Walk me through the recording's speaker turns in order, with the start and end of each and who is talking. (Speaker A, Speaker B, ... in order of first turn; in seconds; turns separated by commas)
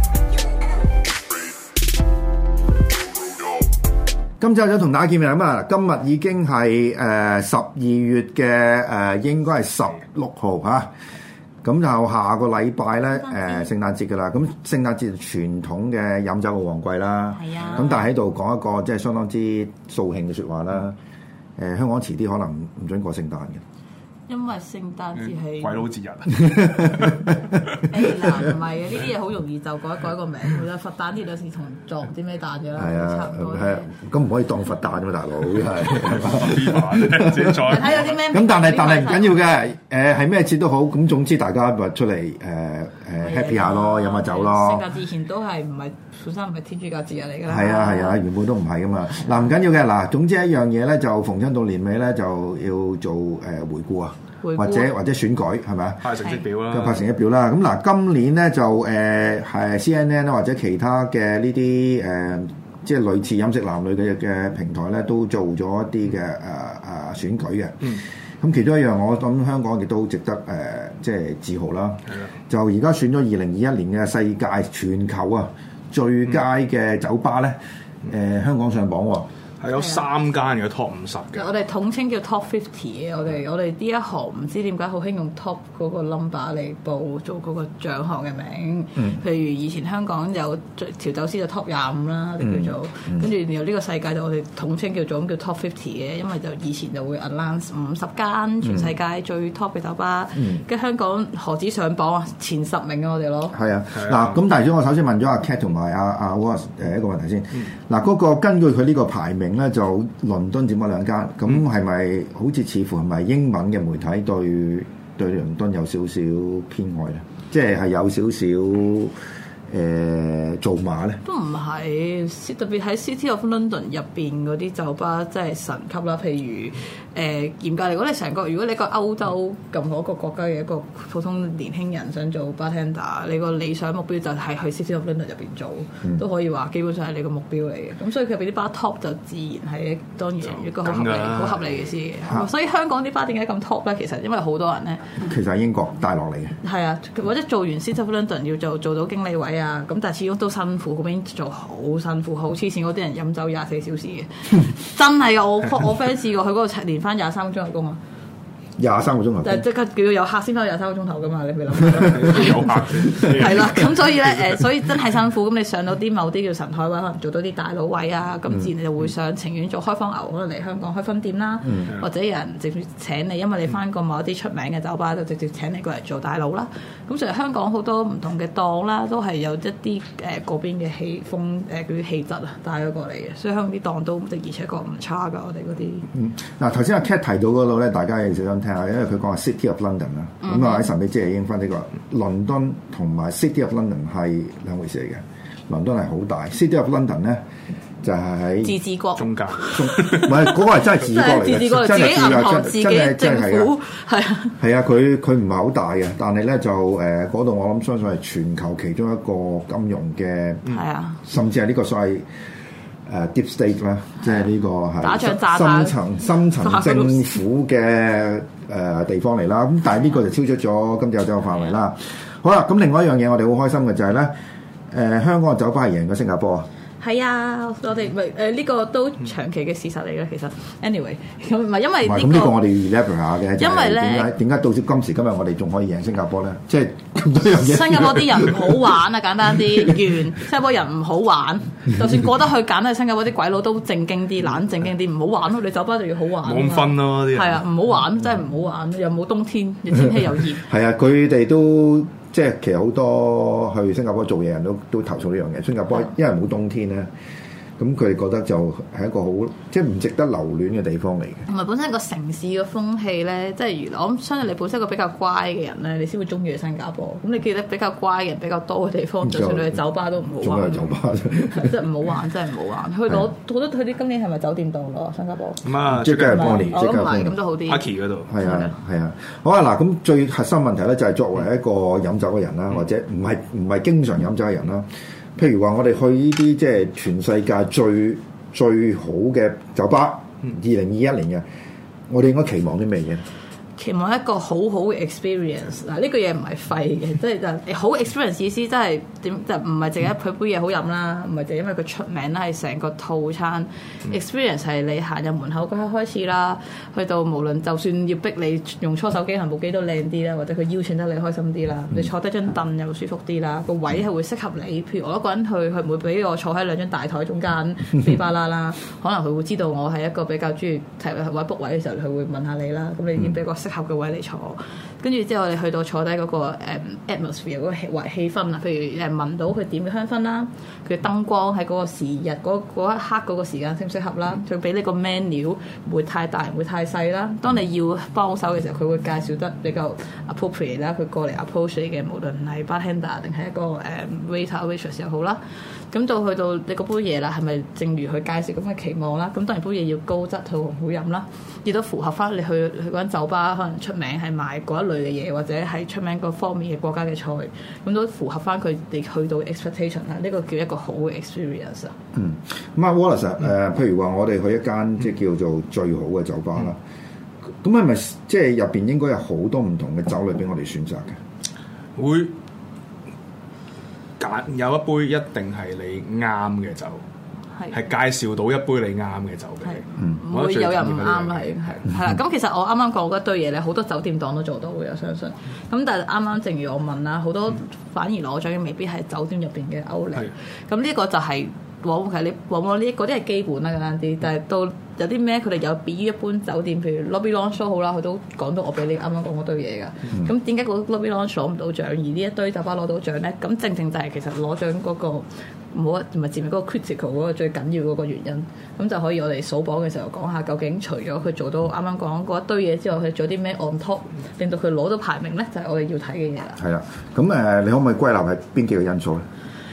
Speaker A: 4.4-10.9, Speaker A: 11.6-20.9, Speaker B: 13.2-13.7, Speaker B: 17.3-18.0, Speaker A: 21.6-23.6, Speaker B: 24.3-25.8, Speaker C: 25.4-27.3, Speaker A: 26.3-27.3, Speaker B: 27.9-33.9, Speaker A: 32.8-37.8, Speaker C: 36.0-38.2, Speaker B: 37.6-39.4, Speaker A: 38.3-44.9, Speaker B: 43.2-48.2, Speaker A: 47.5-56.1, Speaker B: 54.4-54.9, Speaker C: 56.0-57.0, Speaker A: 56.7-79.3, Speaker C: 79.6-81.5, Speaker B: 79.7-80.0, Speaker B: 81.3-103.5, Speaker A: 92.4-93.3, Speaker A: 103.5-119.1, Speaker C: 103.9-104.3, Speaker A: 119.7-121.2, Speaker B: 121.2-145.2, Speaker C: 140.5-141.8, Speaker A: 145.2-146.6, Speaker B: 146.6-158.0, Speaker A: 158.8-159.6, Speaker B: 159.4-186.1, Speaker C: 162.1-164.6, Speaker A: 186.1-197.4, Speaker B: 190.4-190.9, Speaker A: 198.0-198.8, Speaker B: 198.6-204.6, Speaker C: 199.2-200.3, Speaker A: 199.7-203.7, Speaker A: 204.6-210.7, Speaker B: 210.7-211.2, Speaker A: 211.2-212.3, Speaker A: 213.1-224.3, Speaker B: 215.0-217.4, Speaker A: 224.9-226.7, Speaker B: 227.0-232.6, Speaker A: 232.0-238.7, Speaker B: 233.6-234.3, Speaker B: 237.6-250.6, Speaker C: 246.4-247.6, Speaker A: 250.6-257.1, Speaker A: 257.8-261.4, Speaker B: 261.5-270.9, Speaker A: 269.2-269.8, Speaker A: 270.4-271.8, Speaker B: 271.5-275.6, Speaker C: 275.6-276.8, Speaker A: 275.9-277.3, Speaker B: 276.2-277.9, Speaker C: 277.7-278.3, Speaker A: 278.3-291.4, Speaker B: 278.4-278.7, Speaker A: 292.1-293.2, Speaker B: 293.8-345.4, Speaker B: 345.9-361.9, Speaker A: 362.1-366.8, Speaker A: 367.6-371.2, Speaker C: 371.9-372.3, Speaker C: 374.2-377.0, Speaker C: 377.7-381.5, Speaker B: 379.6-416.6, Speaker A: 416.6-419.2